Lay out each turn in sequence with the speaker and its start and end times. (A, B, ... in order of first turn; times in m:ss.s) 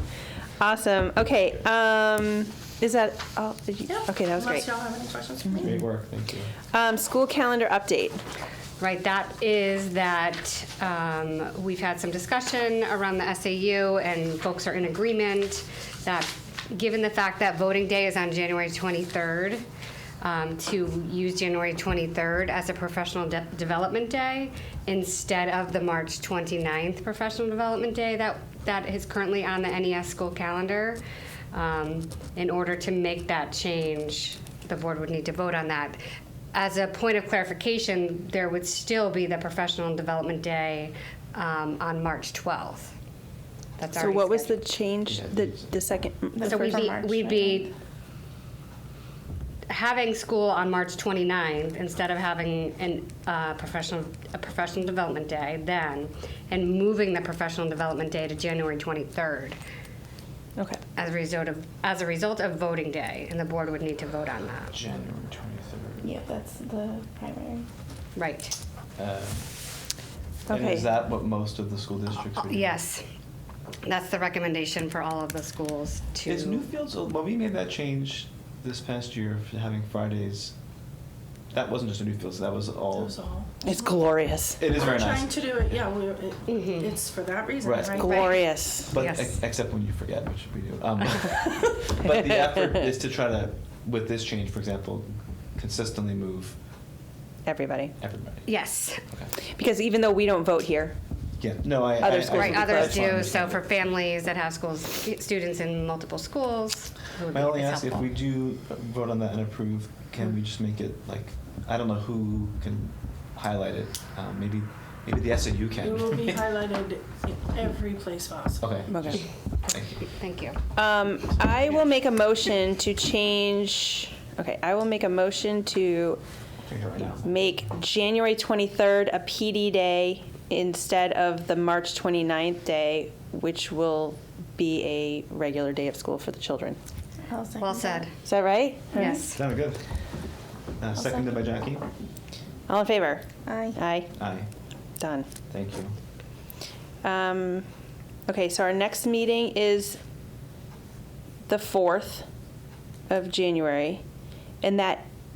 0:00.6-0:04.7 A
0:03.8-0:05.8 B
0:05.6-0:06.5 C
0:06.7-0:08.2 A
0:08.8-0:19.6 D
0:20.2-0:31.0 D
0:31.5-0:36.0 D
0:36.5-0:42.9 D
0:43.8-0:44.6 D
0:43.9-0:46.8 A
0:45.1-0:45.8 C
0:46.3-0:47.7 E
0:46.4-0:47.7 D
0:49.7-0:59.6 D
1:01.0-1:04.7 D
1:04.7-1:06.2 C
1:06.0-1:07.7 E
1:08.2-1:08.5 D
1:09.0-1:09.4 C
1:10.5-1:10.9 A
1:10.5-1:12.8 C
1:12.4-1:13.0 D
1:13.8-1:16.6 D
1:16.2-1:20.5 C
1:21.5-1:23.2 C
1:22.9-1:23.5 B
1:23.6-1:24.6 A
1:24.6-1:25.7 C
1:24.8-1:28.4 B
1:26.5-1:26.9 D
1:27.6-1:28.2 C
1:27.9-1:28.9 A
1:28.0-1:29.4 D
1:28.9-1:36.6 C
1:37.4-1:37.9 A
1:38.0-1:38.5 C
1:38.4-1:39.0 D
1:39.5-1:41.0 A
1:41.4-1:43.7 C
1:42.0-1:43.3 A
1:42.2-1:48.1 D
1:47.3-1:56.5 C
1:55.8-1:58.6 B
1:58.6-2:00.1 C
1:58.9-1:59.2 A
1:59.7-2:00.6 D
2:00.7-2:06.2 A
2:01.5-2:01.9 C
2:06.6-2:07.4 C
2:07.2-2:16.8 A
2:17.3-2:18.1 E
2:17.6-2:18.1 D
2:18.2-2:19.3 A
2:18.9-2:19.4 D
2:19.3-2:19.8 C
2:20.8-2:21.9 C
2:21.0-2:21.4 E
2:22.7-2:24.1 A
2:23.4-2:23.8 E
2:24.2-2:24.5 C
2:25.0-2:25.3 A
2:25.5-2:25.9 C
2:27.0-2:27.6 A
2:28.3-2:30.0 A
2:31.5-2:32.2 A
2:33.1-2:34.0 A
2:34.6-2:35.0 A